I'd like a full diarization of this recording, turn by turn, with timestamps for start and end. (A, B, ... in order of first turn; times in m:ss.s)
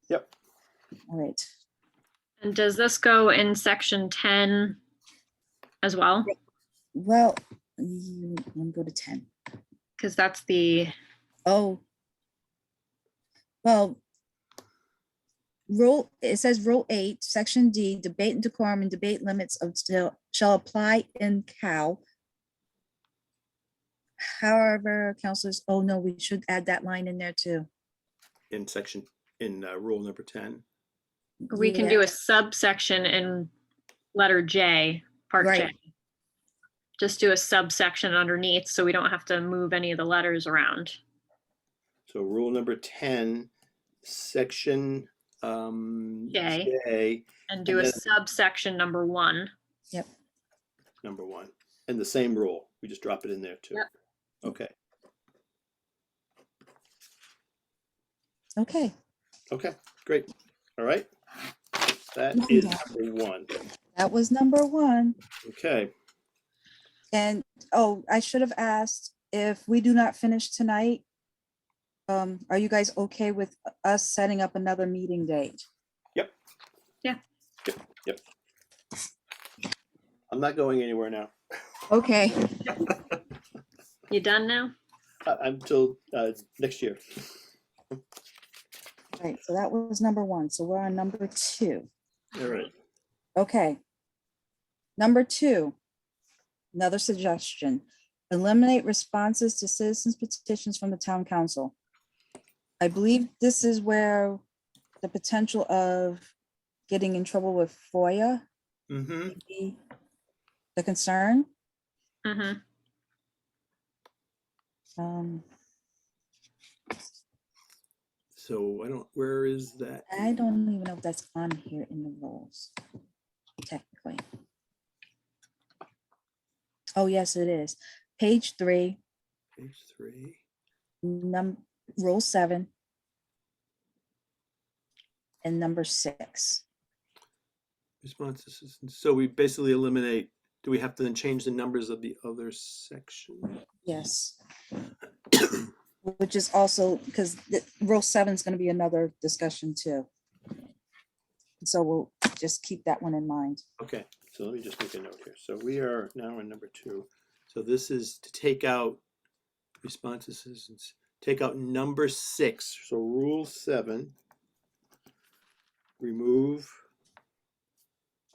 0:01.1-0:01.5 A
0:02.4-0:04.8 B
0:05.8-0:06.3 B
0:07.0-0:09.3 A
0:10.0-0:11.0 B
0:11.5-0:11.8 A
0:13.6-0:14.0 A
0:15.7-0:22.0 A
0:24.2-0:27.7 A
0:28.5-0:30.6 C
0:31.4-0:32.1 A
0:31.5-0:33.5 B
0:34.1-0:35.8 B
0:35.4-0:35.7 A
0:37.0-0:41.0 B
0:42.1-0:43.5 C
0:44.0-0:48.0 C
0:46.3-0:46.7 B
0:47.5-0:49.5 B
0:51.0-0:53.8 C
0:54.4-0:54.7 C
0:58.6-0:58.9 A
0:59.5-1:01.1 C
1:02.1-1:03.5 C
1:02.3-1:02.8 A
1:04.0-1:05.2 A
1:05.4-1:05.9 C
1:07.1-1:11.0 A
1:12.1-1:15.6 A
1:17.7-1:18.2 C
1:20.3-1:21.3 C
1:21.9-1:22.9 A
1:24.1-1:24.7 B
1:25.2-1:27.2 C
1:29.2-1:31.9 A
1:32.4-1:32.7 C
1:33.4-1:33.8 A
1:35.0-1:35.8 A
1:36.7-1:41.7 A
1:42.8-1:44.4 A
1:45.0-1:46.3 A
1:46.9-1:48.5 A
1:48.9-1:49.4 C
1:49.3-1:49.8 A
1:50.8-1:51.5 A
1:52.2-1:52.6 B
1:55.0-1:55.4 A
1:58.3-2:00.1 C
2:00.1-2:02.7 A
2:03.6-2:04.2 A
2:07.0-2:09.0 A
2:09.6-2:10.4 C
2:11.0-2:12.7 A
2:15.4-2:16.6 A
2:18.0-2:23.6 C
2:23.8-2:24.4 A
2:26.0-2:30.1 A
2:31.6-2:33.6 A
2:33.8-2:39.0 C
2:39.8-2:44.2 C
2:46.0-2:46.8 C